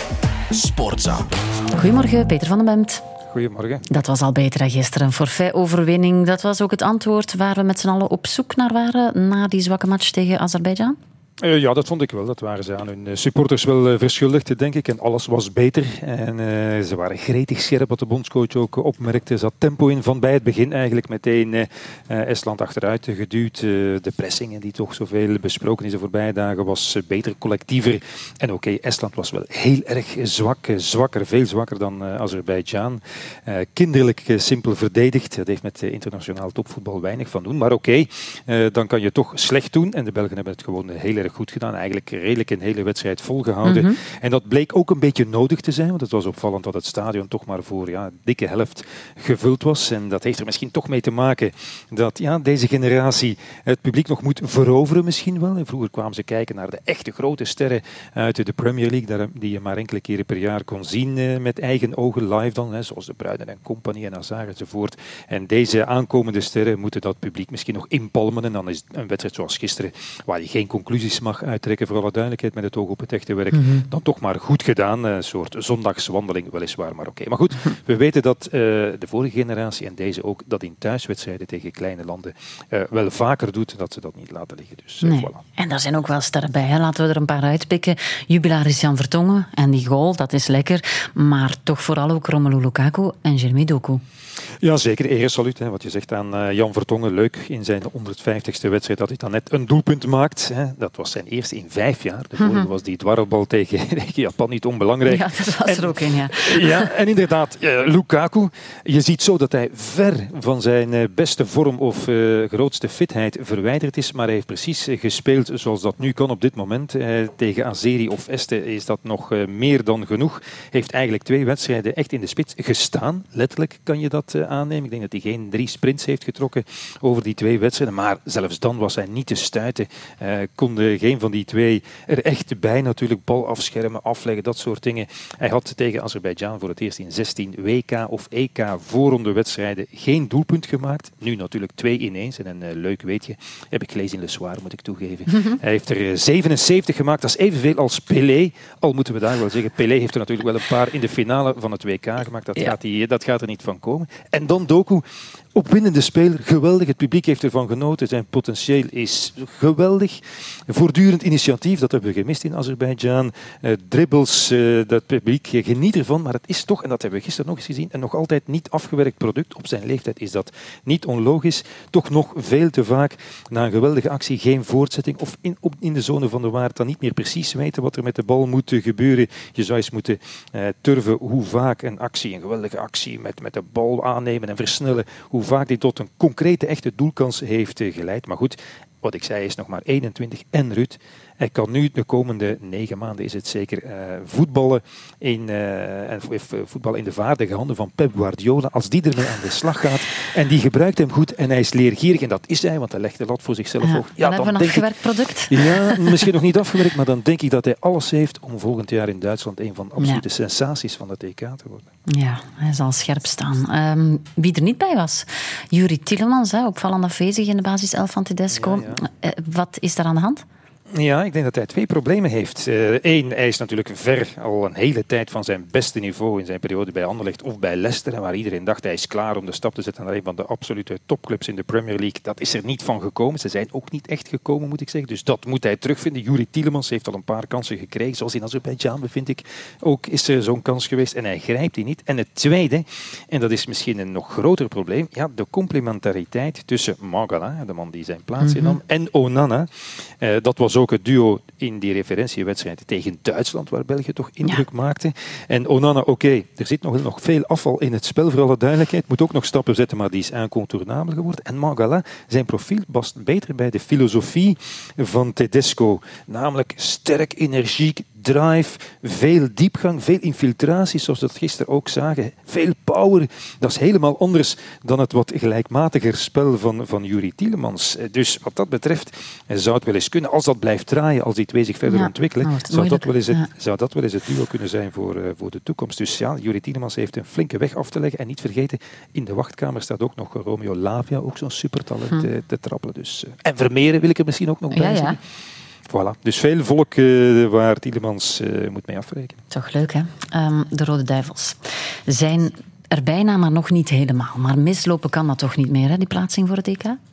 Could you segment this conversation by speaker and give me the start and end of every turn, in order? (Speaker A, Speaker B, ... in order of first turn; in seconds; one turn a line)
Speaker A: 1.7-3.0
Speaker B: 3.3-3.9
Speaker A: 3.9-11.0
Speaker B: 11.4-85.4
Speaker A: 43.6-44.0
Speaker A: 73.5-73.8
Speaker A: 85.0-94.0
Speaker B: 94.6-155.0
Speaker A: 102.4-102.7
Speaker A: 105.0-106.9
Speaker B: 155.5-204.9
Speaker A: 203.8-206.3
Speaker B: 205.5-211.9
Speaker A: 212.1-220.4
Speaker B: 218.5-219.0
Speaker B: 220.9-295.2
Speaker A: 248.4-248.8
Speaker A: 281.9-283.4
Speaker A: 294.7-295.2
Speaker B: 295.9-299.4
Speaker A: 299.5-307.0